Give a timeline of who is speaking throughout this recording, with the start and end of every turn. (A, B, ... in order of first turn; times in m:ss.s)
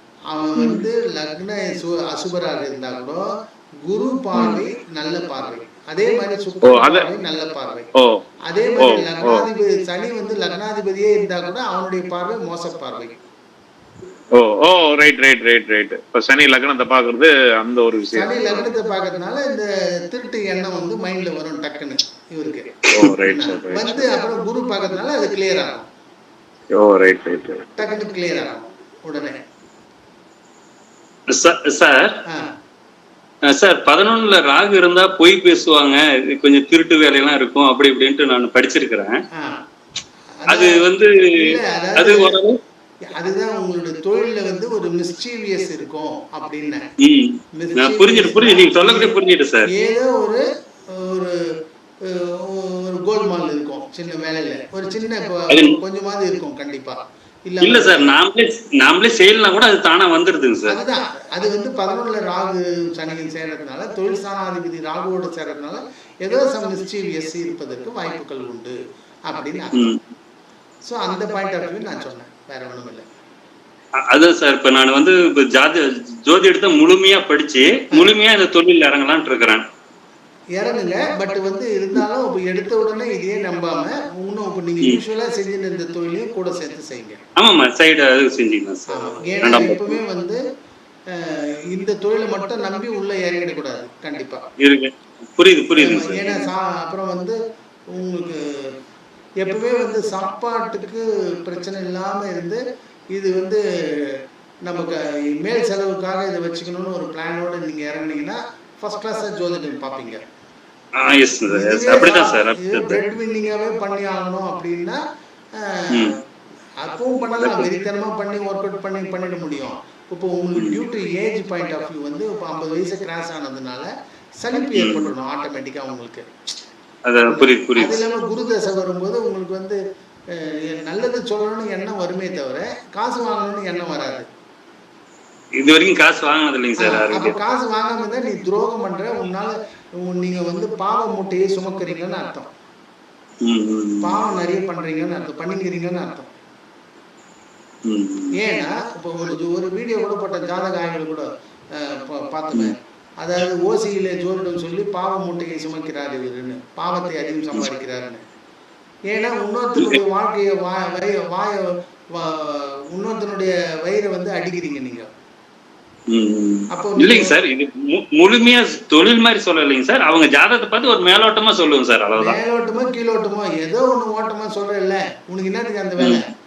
0:00.3-0:03.2 A
0:03.9-0:07.9 A
0:06.6-0:07.1 B
0:08.0-0:08.2 B
0:08.5-0:13.2 A
0:08.8-0:09.5 B
0:14.4-0:18.6 B
0:18.1-0:25.9 A
0:22.9-0:24.1 B
0:26.7-0:27.7 B
0:27.8-0:29.4 A
0:31.3-0:32.2 C
0:33.5-0:39.2 C
0:39.4-0:39.6 A
0:40.4-0:40.8 A
0:40.5-0:42.6 C
0:41.4-0:42.4 A
0:43.1-0:46.9 A
0:47.0-0:49.7 C
0:47.6-0:49.2 A
0:49.7-0:51.5 A
0:52.1-0:58.2 A
0:55.5-0:55.8 C
0:57.6-1:00.8 C
1:00.7-1:08.8 A
1:09.3-1:09.9 A
1:09.7-1:10.0 C
1:10.8-1:13.0 A
1:14.1-1:19.6 C
1:20.6-1:27.2 A
1:27.4-1:30.0 C
1:28.9-1:30.4 A
1:31.1-1:34.4 A
1:34.6-1:36.5 C
1:35.8-1:37.4 A
1:37.9-1:38.7 A
1:39.4-1:42.6 A
1:43.1-1:50.2 A
1:51.0-1:53.0 C
1:51.5-1:55.0 A
1:55.6-1:56.1 A
1:56.8-2:03.9 A
1:57.4-1:57.7 C
2:04.4-2:06.3 A
2:04.8-2:05.1 C
2:07.1-2:08.0 C
2:07.3-2:09.8 A
2:10.3-2:14.3 A
2:15.6-2:17.4 C
2:16.8-2:22.5 A
2:23.4-2:24.2 C
2:24.0-2:26.3 A
2:27.8-2:28.3 C
2:28.4-2:38.2 A
2:39.1-2:45.1 A
2:46.1-2:52.4 C
2:46.7-2:47.4 A
2:52.2-2:56.2 A